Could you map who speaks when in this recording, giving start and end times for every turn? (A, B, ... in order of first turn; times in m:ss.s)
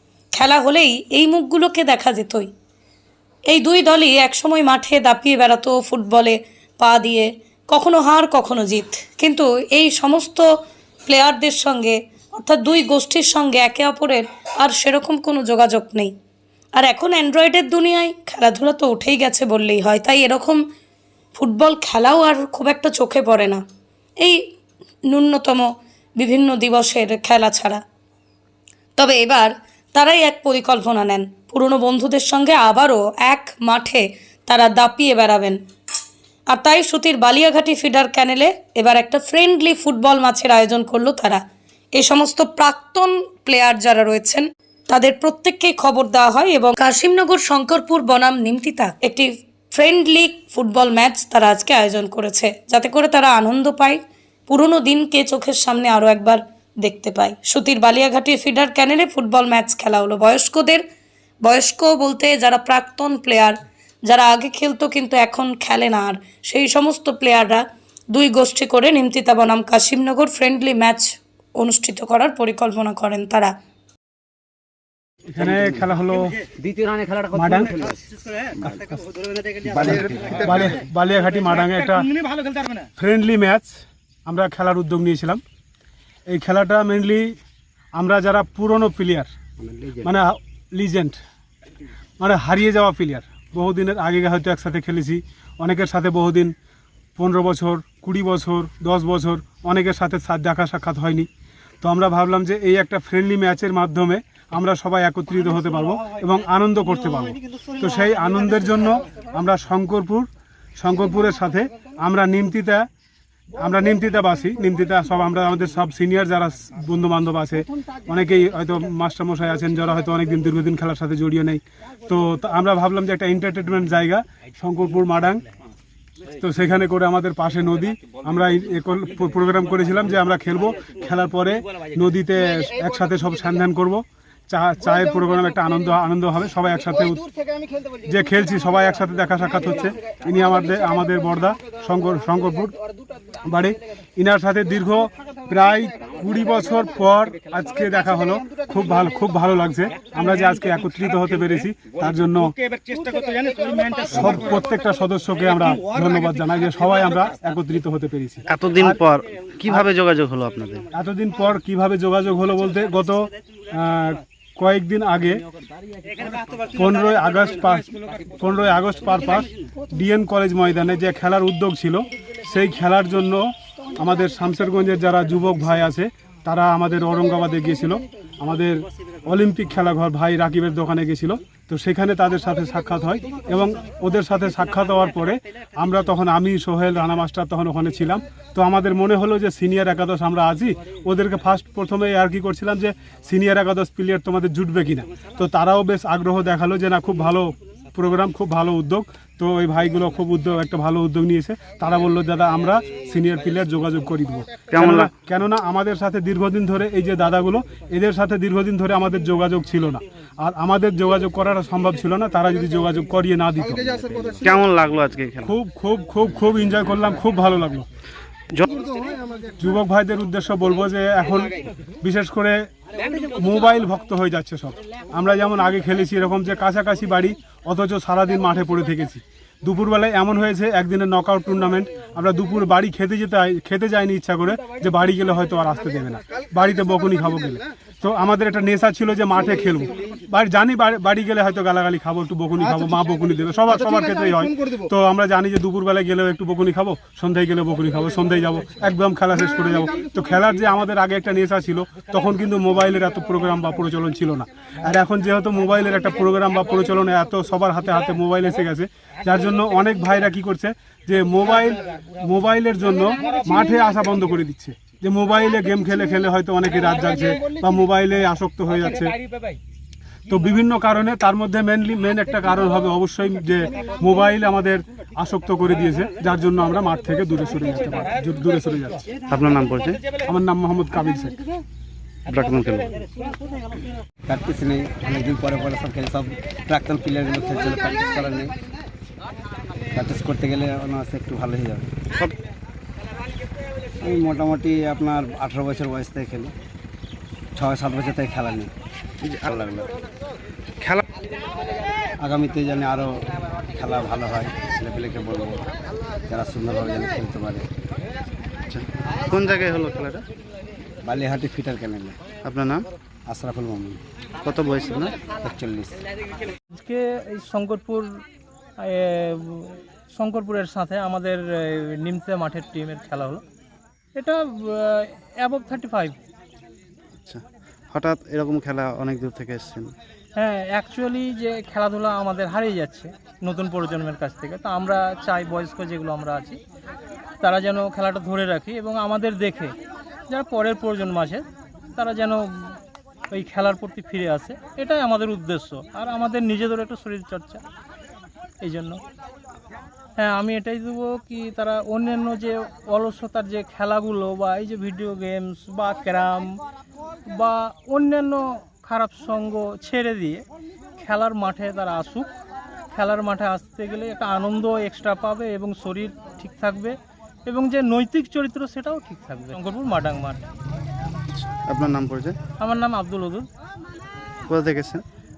0:00.3-0:02.5 A
0:03.5-0:10.5 A
0:11.1-0:16.1 A
0:16.8-0:20.6 A
0:21.3-0:23.6 A
0:25.1-0:27.8 A
0:29.0-0:35.6 A
0:36.5-0:41.4 A
0:42.0-1:00.8 A
1:01.4-1:13.5 A
1:15.3-1:16.4 B
1:16.6-1:18.0 C
1:17.3-1:17.8 B
1:19.6-1:20.6 C
1:20.0-1:22.1 B
1:23.0-1:25.4 B
1:26.3-1:27.4 B
1:28.0-1:29.3 B
1:29.6-1:30.1 C
1:30.0-1:31.2 B
1:32.2-1:36.5 B
1:37.2-1:41.3 B
1:41.8-1:50.3 B
1:50.8-1:52.9 B
1:53.6-2:05.4 B
2:06.4-2:17.3 B
2:18.1-2:22.8 B
2:23.5-2:32.5 B
2:34.1-2:39.0 B
2:38.5-2:40.9 D
2:40.9-2:45.4 B
2:46.7-2:53.5 B
2:54.0-3:34.0 B
3:24.7-3:25.1 D
3:34.4-3:35.5 D
3:35.4-3:37.9 B
3:39.6-3:42.7 B
3:43.2-4:29.2 B
4:30.3-4:39.1 B
4:39.3-4:40.0 D
4:40.2-4:41.4 B
4:42.3-4:43.0 D
4:44.3-4:48.6 C
4:49.9-4:51.9 C
4:54.0-4:56.5 C
4:57.6-4:58.7 C
4:59.2-4:59.5 D
4:59.5-4:59.9 C
5:02.2-5:03.1 C
5:03.7-5:05.6 C
5:06.3-5:07.7 C
5:08.7-5:10.2 D
5:11.0-5:12.2 C
5:12.4-5:12.9 D
5:13.3-5:14.0 C
5:14.4-5:15.2 D
5:15.3-5:16.0 C
5:16.8-5:18.1 E
5:18.8-5:23.4 E
5:24.2-5:26.2 E
5:27.2-5:29.9 D
5:30.4-5:36.6 E
5:37.4-5:39.8 E
5:40.3-5:41.4 E
5:42.0-5:42.8 E
5:43.3-5:47.6 E
5:48.6-5:49.0 E
5:50.2-5:56.6 E
5:57.3-6:00.4 E
6:01.0-6:02.3 E
6:02.9-6:10.5 E
6:11.3-6:12.4 D
6:12.6-6:13.5 E
6:14.5-6:15.0 D